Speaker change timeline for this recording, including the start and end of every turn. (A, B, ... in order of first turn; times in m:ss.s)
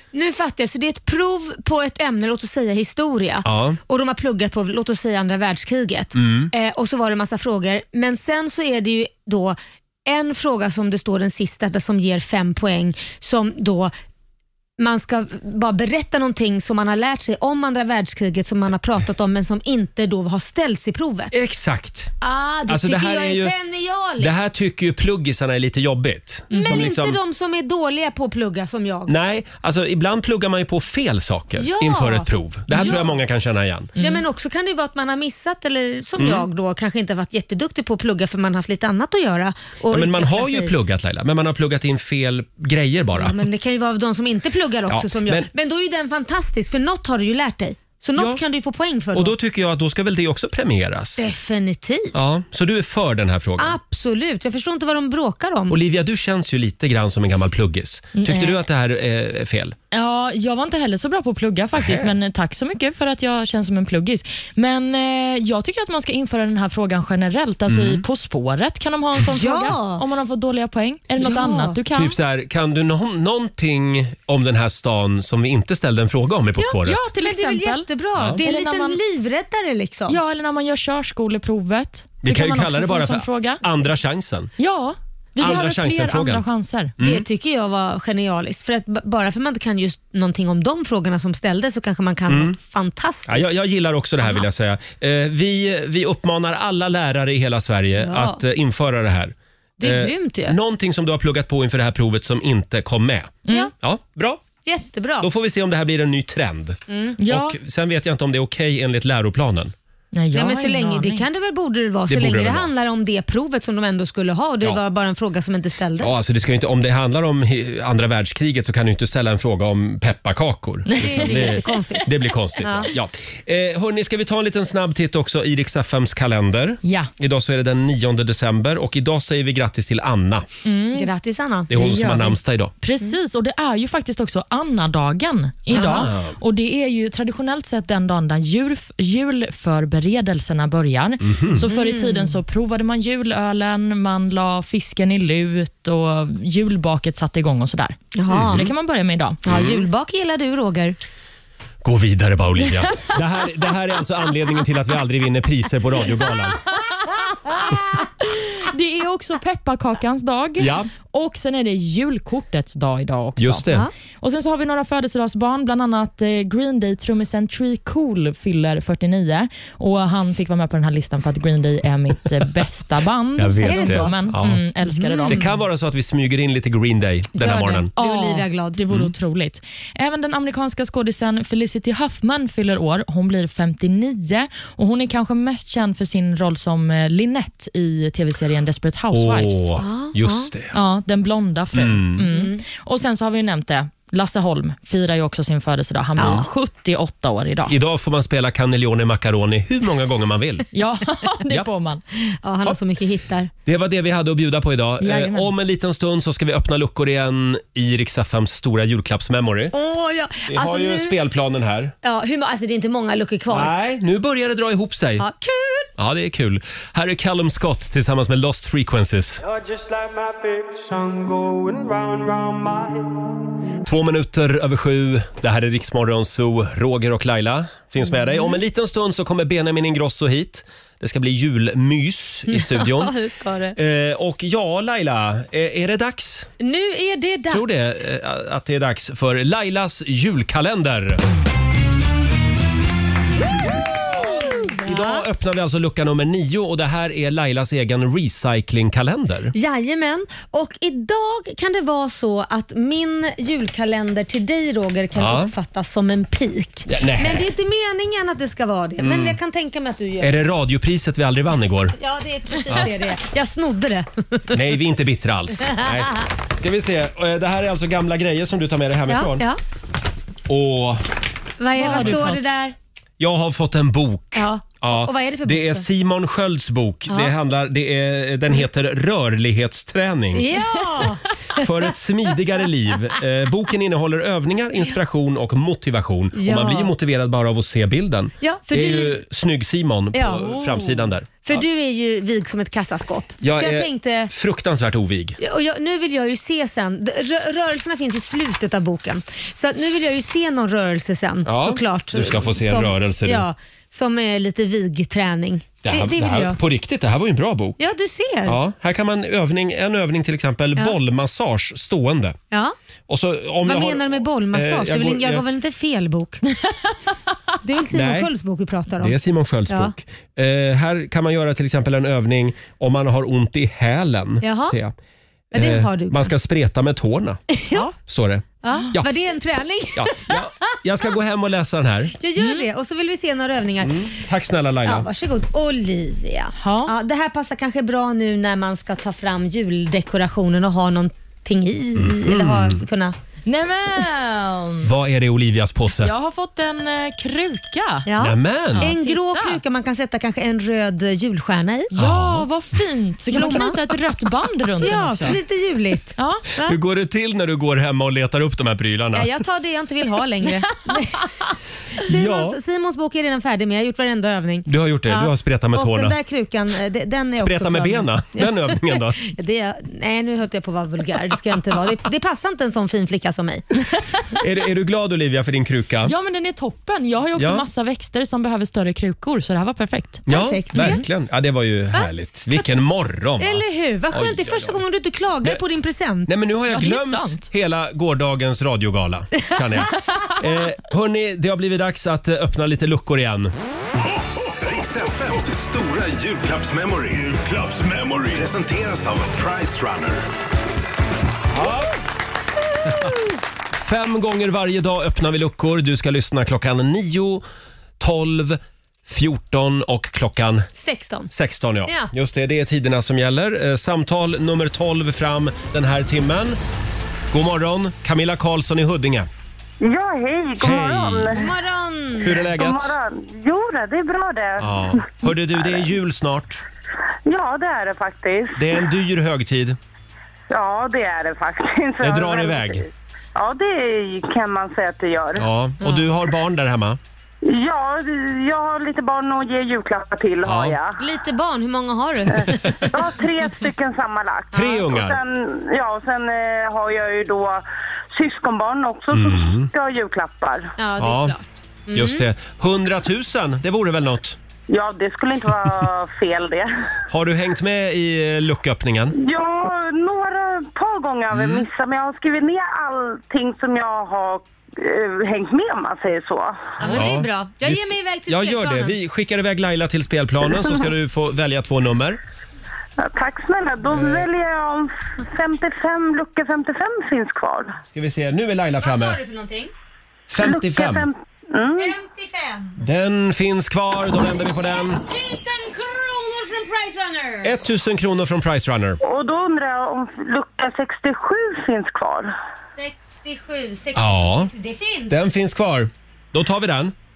0:00.1-0:13.9 A
0:03.4-0:03.8 B
0:06.1-0:06.5 B
0:14.8-0:21.3 A
0:21.3-0:22.1 B
0:22.2-0:24.4 A
0:22.7-0:23.5 B
0:24.2-0:27.2 B
0:26.5-0:29.1 A
0:26.5-0:26.8 C
0:29.1-0:33.9 B
0:31.6-0:33.1 A
0:34.0-0:40.7 A
0:36.2-0:36.4 B
0:39.9-0:43.4 B
0:43.1-0:49.3 A
0:44.9-0:45.5 B
0:49.1-0:51.2 B
0:51.2-0:52.2 A
0:52.1-0:53.8 B
0:53.6-0:55.7 A
0:55.7-0:59.7 B
0:58.1-0:58.6 C
0:59.9-1:12.2 C
1:01.7-1:02.1 B
1:07.7-1:08.0 B
1:09.3-1:10.0 A
1:11.2-1:11.8 A
1:11.9-1:17.1 B
1:16.6-1:20.2 A
1:16.8-1:19.0 C
1:18.2-1:18.4 B
1:20.1-1:23.6 C
1:22.2-1:24.5 B
1:24.6-1:26.9 C
1:25.4-1:26.4 B
1:27.0-1:27.2 B
1:27.0-1:33.5 A
1:32.3-1:32.6 B
1:33.3-1:44.4 B
1:38.0-1:38.4 A
1:39.8-1:40.6 A
1:44.6-1:45.3 A
1:45.2-1:49.7 B
1:46.9-1:47.2 A
1:47.2-1:47.6 C
1:50.1-1:51.2 C
1:50.3-1:56.2 A
1:52.1-1:52.7 B
1:56.0-2:10.4 B
2:00.9-2:01.5 C
2:01.0-2:02.9 A
2:06.8-2:07.1 C
2:10.6-2:11.1 C
2:10.9-2:11.8 A
2:11.7-2:12.7 B
2:11.7-2:29.4 C
2:15.7-2:16.4 B
2:15.7-2:16.0 A
2:21.2-2:21.6 B
2:21.6-2:22.4 A
2:28.1-2:28.7 A
2:28.3-2:28.7 B
2:29.4-2:31.0 A
2:29.4-2:29.8 B
2:31.8-2:36.6 B
2:38.2-2:43.6 C
2:40.6-2:40.9 B
2:43.4-2:43.8 B
2:44.2-2:55.5 C
2:53.4-2:54.6 B
2:53.6-2:54.2 A
2:54.8-2:55.4 A
2:55.3-2:57.9 B
2:57.3-2:58.8 A
2:58.0-3:09.7 C
2:58.9-2:59.1 B
3:09.1-3:10.8 B
3:09.8-3:10.5 A
3:10.7-3:17.7 C
3:11.7-3:12.3 B
3:12.3-3:12.6 A
3:16.2-3:16.5 A
3:16.2-3:16.5 B
3:17.7-3:20.7 B
3:20.7-3:22.0 C
3:22.4-3:23.5 A
3:23.6-3:29.7 B
3:25.0-3:25.5 C
3:29.7-3:31.1 A
3:30.5-3:31.9 B
3:32.0-3:33.7 A
3:33.5-3:35.2 B
3:35.2-3:35.9 A
3:36.0-3:39.4 B
3:40.7-3:42.1 D
3:43.8-3:53.1 B
3:48.2-3:48.6 A
3:52.5-3:53.8 A
3:53.8-3:56.5 B
3:56.6-3:58.0 A
3:57.5-4:01.2 B
4:04.0-4:05.2 A
4:04.3-4:09.5 B
4:09.5-4:20.3 A
4:15.2-4:15.5 B
4:16.9-4:17.5 B
4:19.0-4:19.4 B
4:20.2-4:21.9 B
4:22.0-4:24.5 A
4:24.5-4:29.4 B
4:25.6-4:25.9 A
4:29.1-4:29.6 A
4:30.5-4:31.0 B
4:31.6-4:32.7 A
4:31.8-4:32.4 C
4:31.8-4:32.3 B
4:33.2-4:40.6 B
4:34.3-4:35.8 A
4:40.3-4:41.7 A
4:41.6-4:51.6 B
4:46.4-4:46.9 A
4:48.4-4:49.2 A
4:50.1-4:54.3 A
4:53.4-4:55.4 B
4:55.4-5:06.6 A
5:01.4-5:03.4 B
5:05.8-5:07.8 B
5:07.8-5:08.6 A
5:08.5-5:12.4 B
5:13.1-5:15.4 B
5:13.6-5:16.4 A
5:17.6-5:19.1 A
5:17.9-5:18.3 B
5:19.0-5:24.9 B
5:24.4-5:24.8 A
5:25.5-5:26.3 A
5:25.5-5:27.5 B
5:27.5-5:27.8 A
5:28.0-5:29.1 B
5:28.6-5:30.4 A
5:30.0-5:32.2 B
5:32.2-5:34.1 A
5:32.4-5:32.7 C
5:33.8-5:35.1 B
5:34.8-5:43.2 A
5:36.6-5:36.9 C
5:42.0-5:42.8 B
5:43.4-5:44.9 C
5:44.8-5:46.1 B
5:46.0-5:48.1 C
5:48.0-5:51.9 A
5:48.2-5:48.9 B
5:48.7-5:49.6 C
5:51.9-5:55.4 C
5:52.0-5:52.5 B
5:53.3-5:53.8 A
5:54.8-5:56.8 A
5:56.2-5:56.4 C
5:56.6-5:59.3 B
5:59.1-6:01.2 A
6:02.0-6:13.7 A
6:02.0-6:02.6 B
6:04.7-6:06.2 B
6:07.4-6:09.2 B
6:14.4-6:16.1 B
6:16.0-6:20.2 C
6:17.4-6:17.6 B
6:20.3-6:24.8 B
6:20.3-6:21.0 A
6:23.4-6:26.3 A
6:26.3-6:33.5 B
6:26.7-6:27.5 C
6:34.5-6:40.2 D
6:41.5-6:41.9 B
6:43.8-6:47.4 B
6:48.0-6:50.7 B
6:50.7-6:51.3 A
6:51.3-6:56.6 B
6:57.3-6:59.3 B
6:59.8-7:01.5 E
7:00.6-7:01.4 B
7:01.3-7:02.3 A
7:02.2-7:02.9 B
7:02.5-7:05.1 E
7:04.6-7:06.6 B
7:07.3-7:08.9 E
7:08.6-7:09.8 B
7:10.5-7:15.5 E
7:12.0-7:12.8 B
7:15.4-7:17.0 B
7:15.8-7:16.1 A
7:17.4-7:21.0 E
7:20.4-7:20.8 B
7:21.0-7:22.8 A
7:22.5-7:27.6 E
7:24.5-7:25.2 B
7:28.1-7:30.7 E
7:29.1-7:29.7 B
7:30.8-7:32.3 A
7:31.0-7:31.3 B
7:31.9-7:34.4 B
7:34.7-7:36.7 E
7:37.1-7:39.1 B
7:39.1-7:46.7 E
7:41.3-7:41.7 B
7:46.8-7:49.0 A
7:46.9-7:52.2 B
7:53.0-7:57.8 E
7:53.9-7:54.3 B
7:57.9-7:59.2 B
7:58.8-7:59.7 A
8:00.3-8:01.1 B
8:00.4-8:01.9 E
8:01.8-8:02.8 A
8:02.8-8:05.0 B
8:04.9-8:07.5 A
8:07.4-8:09.0 B
8:09.0-8:12.3 E
8:12.8-8:15.2 A
8:14.0-8:14.5 B
8:15.1-8:16.9 B